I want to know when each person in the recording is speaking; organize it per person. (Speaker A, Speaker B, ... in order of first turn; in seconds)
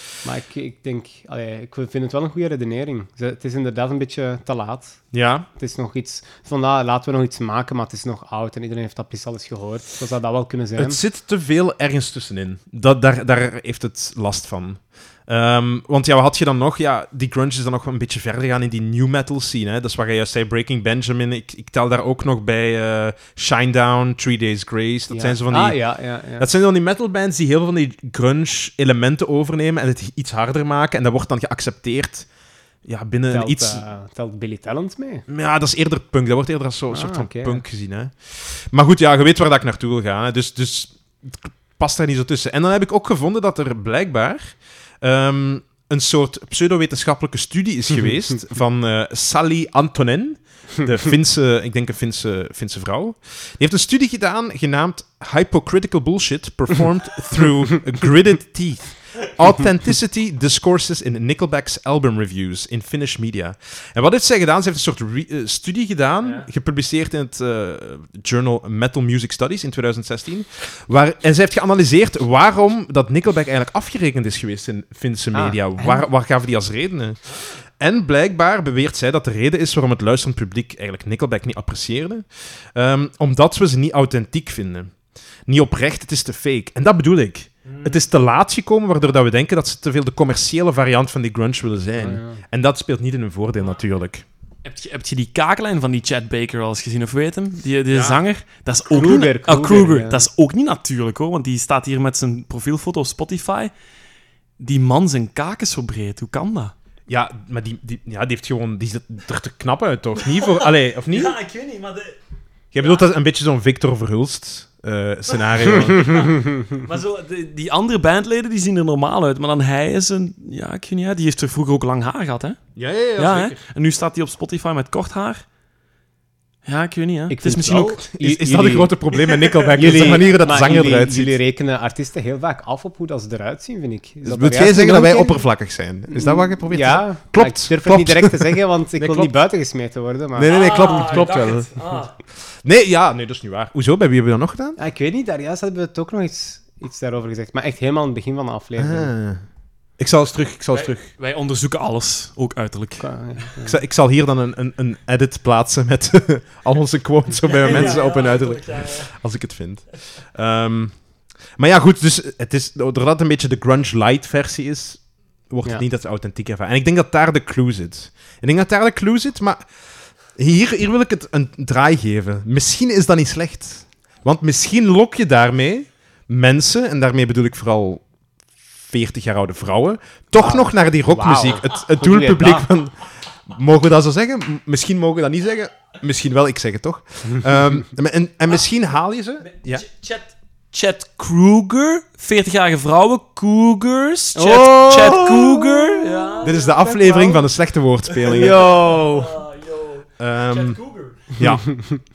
Speaker A: 0.2-5.0, 5.6-11.0, 25.1-26.5, 33.3-35.2, 36.9-37.6, 75.3-76.1, 92.0-92.4, 98.9-100.3, 127.3-129.0, 129.7-135.4, 136.1-141.3, 144.8-149.1, 153.0-153.8, 180.3-182.7, 194.3-197.4, 198.2-199.4
Speaker B: 5.1-5.5, 10.8-25.8, 26.4-32.3, 32.8-33.8, 35.3-84.9, 85.5-94.2, 97.9-98.2, 107.1-111.4, 112.7-116.3, 122.8-123.6, 128.1-131.4, 134.2-139.3, 140.3-141.7, 142.6-144.8, 148.8-149.4, 150.0-151.1, 153.6-161.0, 161.6-169.6, 170.3-178.0, 178.9-189.8, 196.4-198.7, 200.2-201.9
Speaker C: 87.7-88.0, 94.6-103.7, 104.6-106.7, 110.2-112.2, 112.8-113.0, 115.3-122.6, 123.2-125.4, 126.7-128.0, 140.4-142.1, 150.7-153.5, 157.4-159.1, 189.4-197.4, 198.2-201.3